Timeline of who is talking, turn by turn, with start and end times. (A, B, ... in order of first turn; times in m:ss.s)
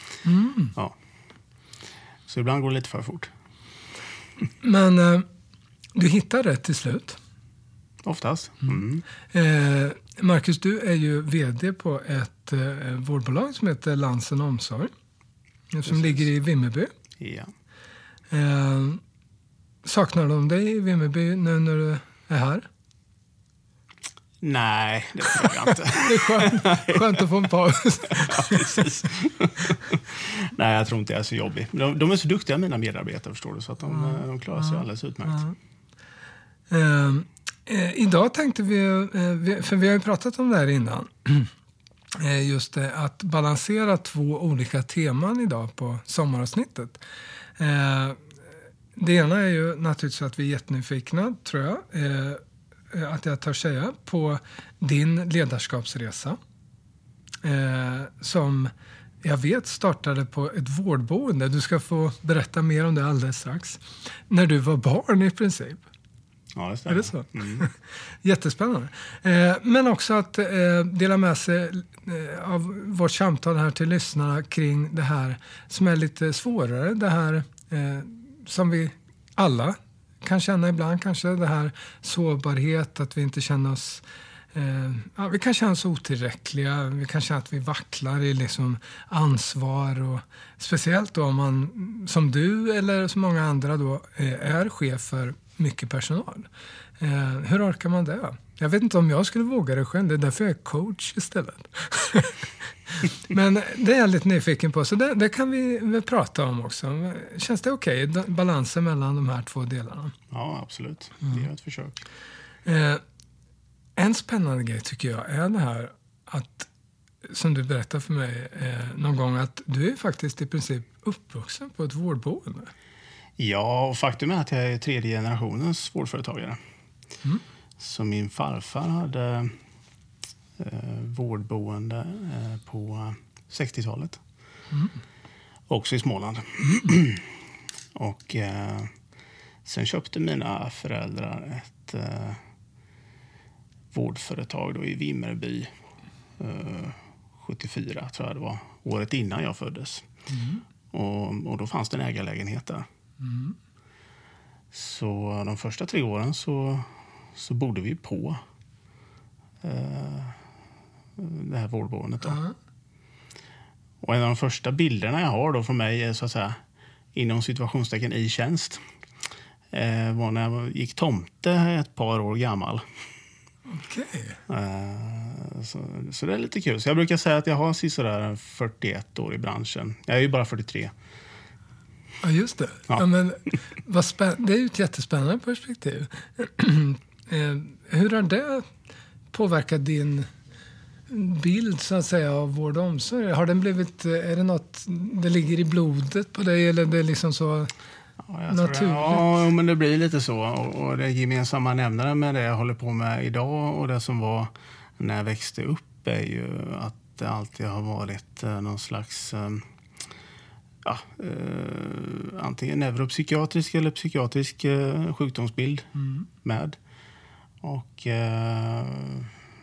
0:00.2-0:00.8 A
0:02.3-0:03.3 B
0:04.6-0:05.3 A
0:06.0-0:07.2 A
0:08.0-0:09.0 B
0:09.3-0:14.9 A
0:15.7-0:16.9 A
0:15.9-0:16.2 B
0:17.2-0:17.5 B
0:18.3-0:19.0 A
0:19.8-0:22.6 A
0:24.4-0:27.2 B
0:25.7-0:28.9 A
0:28.1-0:35.4 B
0:33.9-0:35.6 A
0:36.7-0:41.5 A
0:42.2-0:47.0 A
0:47.6-0:48.2 A
0:49.0-0:56.4 A
0:57.4-0:58.7 A
0:59.2-1:05.8 A
1:06.6-1:07.7 B
1:06.9-1:50.2 A
1:50.3-1:52.0 B
1:52.7-1:53.0 A
1:54.0-1:56.7 A
1:57.2-2:02.7 A
2:03.4-2:06.6 B
2:07.8-2:09.6 B
2:10.6-2:14.2 B
2:15.7-2:17.4 B
2:16.6-2:16.9 A
2:17.9-2:18.9 B
2:19.6-2:22.4 B
2:23.9-2:25.7 B
2:26.4-2:30.1 B
2:30.3-2:30.6 A
2:30.9-2:32.9 B
2:33.2-2:33.6 A
2:34.7-2:38.4 B
2:39.6-2:40.4 B
2:41.2-2:42.4 B
2:42.2-2:42.5 A
2:44.0-2:46.6 B
2:47.1-2:48.8 B
2:49.7-2:52.8 B
2:53.7-2:54.4 A
2:54.5-3:00.9 B
3:02.2-3:08.7 A
3:09.3-3:10.3 A
3:11.1-3:17.7 A
3:18.2-3:29.7 B
3:18.5-3:19.3 A
3:30.8-3:35.9 B
3:36.0-3:36.3 A
3:36.4-3:36.8 B
3:37.6-3:39.4 B